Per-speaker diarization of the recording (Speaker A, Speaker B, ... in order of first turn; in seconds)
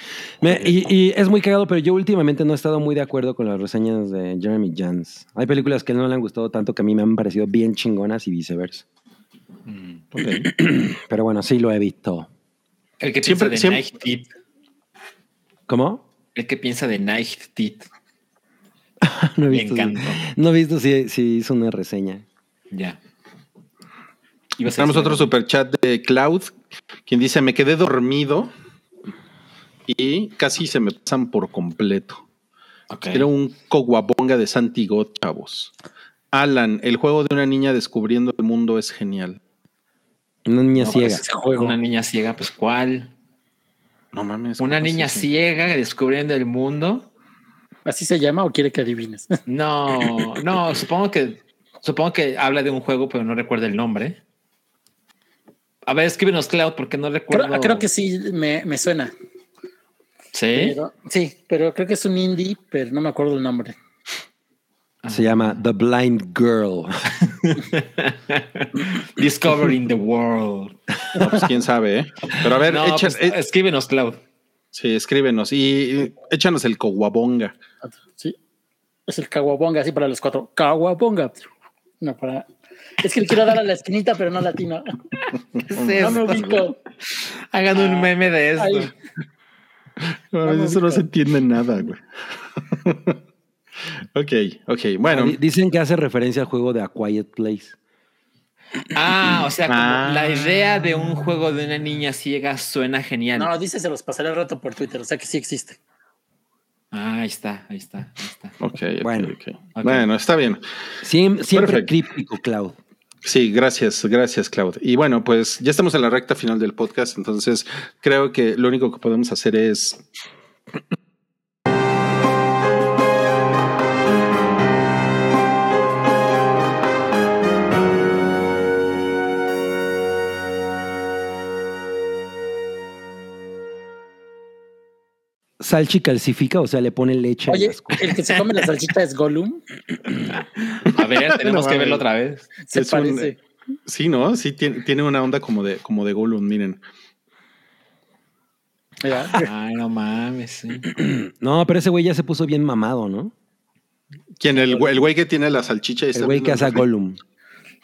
Speaker A: 0.4-8.8, 10.4-12.3, 15.7-16.0, 19.0-22.2, 40.5-41.2, 65.1-67.1, 71.1-71.4, 95.0-97.8, 109.0-109.4, 111.0-112.8, 135.6-138.2, 151.0-153.3, 156.1-157.2
Speaker B: 9.7-10.0, 13.0-14.3, 16.4-17.9, 19.5-20.2, 22.7-23.0, 24.6-25.3, 32.9-33.3, 40.8-43.1, 44.6-47.1, 49.5-54.2, 55.9-57.9, 60.3-60.8, 65.0-65.6, 67.2-71.0, 72.4-74.2, 85.7-86.7, 87.5-88.9, 98.9-103.5, 106.9-108.6, 109.8-110.1, 140.3-142.5, 149.3-150.9
Speaker C: 10.1-10.5, 13.2-13.9, 24.7-26.5, 27.1-28.5, 29.9-32.2, 33.1-35.7, 36.3-39.4, 44.1-45.3, 71.2-73.4, 74.7-77.5, 85.7-86.6, 90.0-92.0, 92.7-93.2, 94.1-95.4, 99.7-100.5, 108.6-110.6, 111.5-111.9, 113.2-120.0, 140.9-142.0, 142.7-143.3, 143.9-146.8, 154.4-156.9
Speaker D: 41.1-41.8, 47.9-49.4, 57.3-59.1, 60.5-63.8, 78.0-78.4, 79.1-81.5, 82.0-82.5, 83.0-85.0, 86.0-86.8, 87.7-88.1, 88.6-88.9, 90.4-91.1, 103.3-105.8, 137.5-139.6, 142.7-143.4, 149.0-149.5, 154.6-154.9